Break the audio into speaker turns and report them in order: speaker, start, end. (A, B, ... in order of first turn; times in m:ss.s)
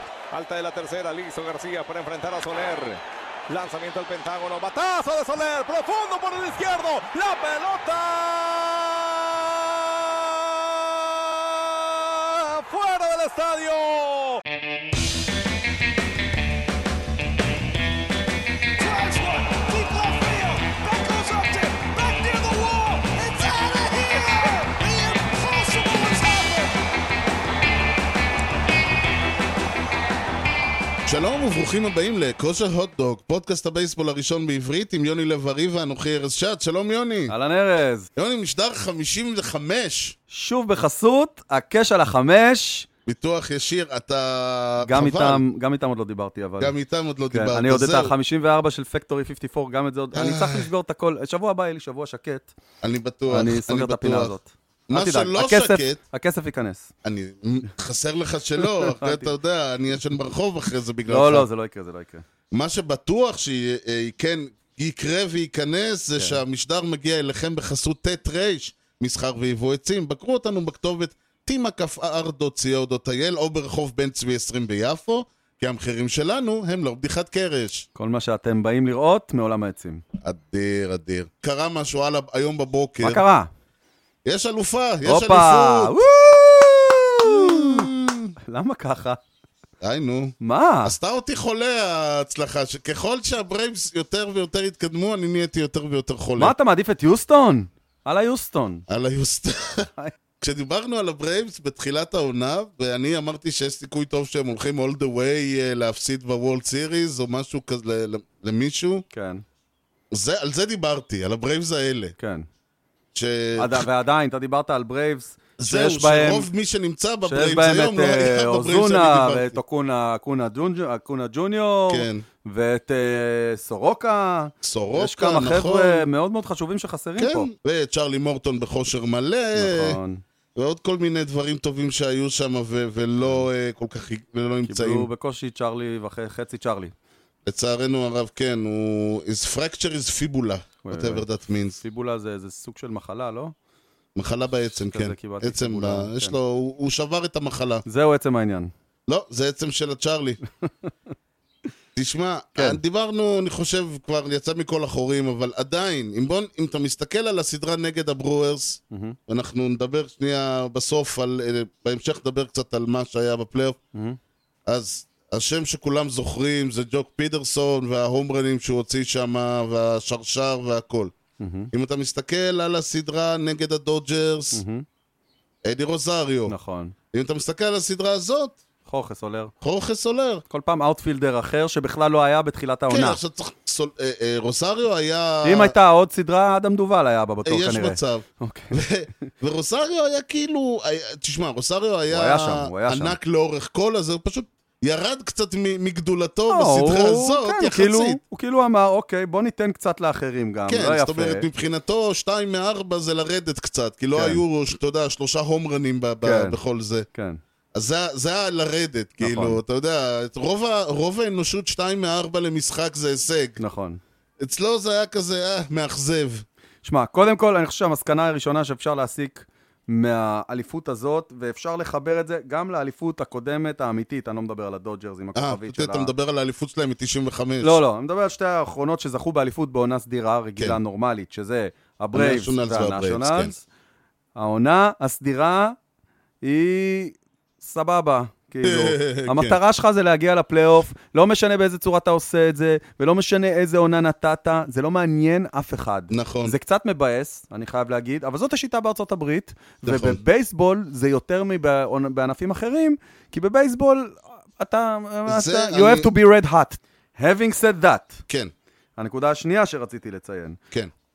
0:00.3-0:14.4 A
0:18.8-0:26.7 B
0:31.1-0:37.3 C
0:37.3-0:38.1 D
0:38.2-0:40.2 C
0:40.3-0:42.9 D
0:43.1-0:45.4 C
0:44.8-0:46.7 D
0:46.6-0:48.1 C
0:47.3-0:52.5 D
0:50.2-0:50.7 C
0:52.8-0:54.4 C
0:53.3-0:56.9 D
0:54.9-0:56.0 C
0:57.0-1:01.5 C
0:58.7-0:59.3 D
1:01.1-1:02.2 D
1:02.5-1:17.9 C
1:18.0-1:20.0 D
1:20.2-1:23.2 C
1:23.0-1:23.5 D
1:24.2-1:26.0 C
1:25.0-1:27.9 D
1:27.2-1:28.3 C
1:28.4-1:29.2 D
1:29.8-1:36.5 C
1:30.4-1:31.0 D
1:36.4-1:38.8 D
1:38.9-1:39.9 C
1:40.4-1:49.0 C
1:49.1-1:49.4 D
1:50.1-1:52.1 C
1:52.2-1:52.5 D
1:53.2-1:53.9 C
1:53.6-1:56.5 D
1:55.6-1:59.6 C
1:57.2-2:07.5 D
2:01.9-2:02.2 C
2:04.6-2:06.1 C
2:07.2-2:10.0 C
2:09.6-2:10.2 D
2:10.6-2:15.1 C
2:13.2-2:13.5 D
2:14.6-2:16.9 D
2:17.5-2:21.8 C
2:20.8-2:21.2 D
2:21.8-2:23.5 D
2:24.2-2:27.8 C
2:24.8-2:26.4 D
2:27.8-2:28.7 D
2:29.1-2:30.4 C
2:32.0-2:43.8 C
2:32.6-2:32.8 D
2:38.9-2:39.2 D
2:44.7-2:51.1 C
2:51.4-2:51.7 D
2:51.7-2:54.6 C
2:54.6-2:54.9 D
2:55.6-2:56.6 C
2:56.5-2:57.0 D
2:57.1-2:58.6 C
2:58.9-2:59.5 D
2:59.6-3:00.4 C
3:00.5-3:03.2 D
3:02.9-3:05.8 C
3:05.4-3:08.8 D
3:07.4-3:18.2 C
3:12.1-3:13.2 D
3:16.5-3:21.5 D
3:20.7-3:27.1 C
3:24.2-3:24.4 D
3:26.2-3:26.6 D
3:27.1-3:27.4 D
3:27.7-3:33.6 C
3:29.2-3:29.6 D
3:33.6-3:34.0 D
3:34.4-3:36.4 C
3:36.8-3:46.1 D
3:45.4-3:47.8 C
3:47.6-3:53.6 D
3:52.1-3:53.5 C
3:54.4-3:55.8 D
3:56.4-4:18.2 D
3:58.6-3:59.6 C
4:06.1-4:06.6 C
4:09.8-4:10.2 C
4:15.3-4:16.1 C
4:19.0-4:20.6 D